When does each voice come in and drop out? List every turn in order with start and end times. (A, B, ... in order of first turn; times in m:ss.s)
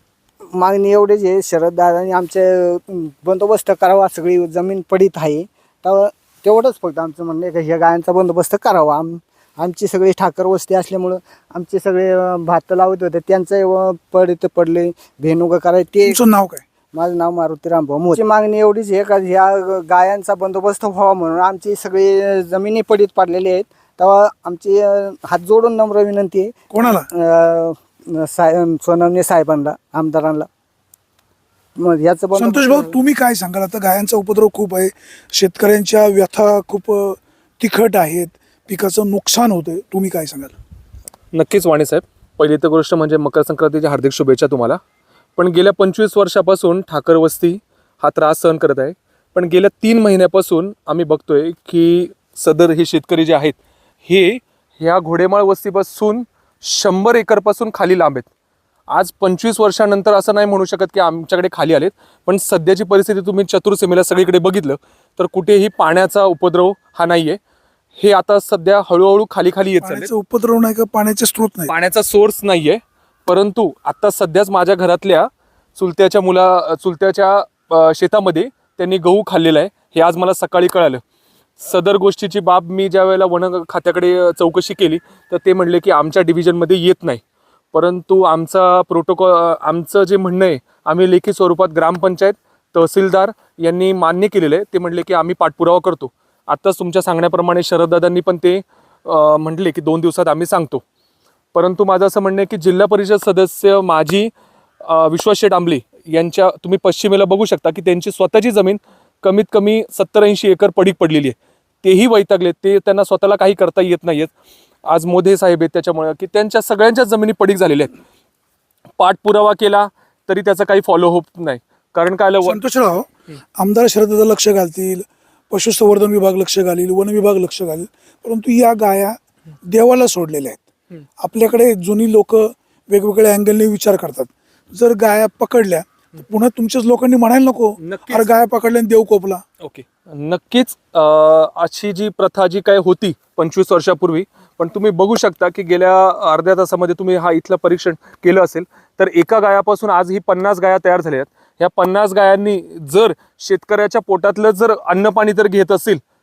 0:00.5-0:16.2 A
0:16.0-0:16.6 B
0:16.9-0:30.5 A
0:26.7-0:27.1 B
0:31.8-0:33.0 A
0:32.3-0:40.5 B
0:41.3-0:44.8 C
0:45.4-0:58.3 C
0:58.9-1:07.4 C
1:08.0-1:10.1 C
1:09.8-1:11.7 B
1:11.7-1:21.0 C
1:21.6-1:27.2 C
1:27.7-1:40.8 C
1:41.5-1:44.3 C
1:44.8-1:54.3 C
1:54.9-1:58.0 C
1:59.0-2:02.6 C
2:02.4-2:10.6 B
2:11.2-2:19.4 B
2:17.8-2:18.3 C
2:19.6-2:36.0 C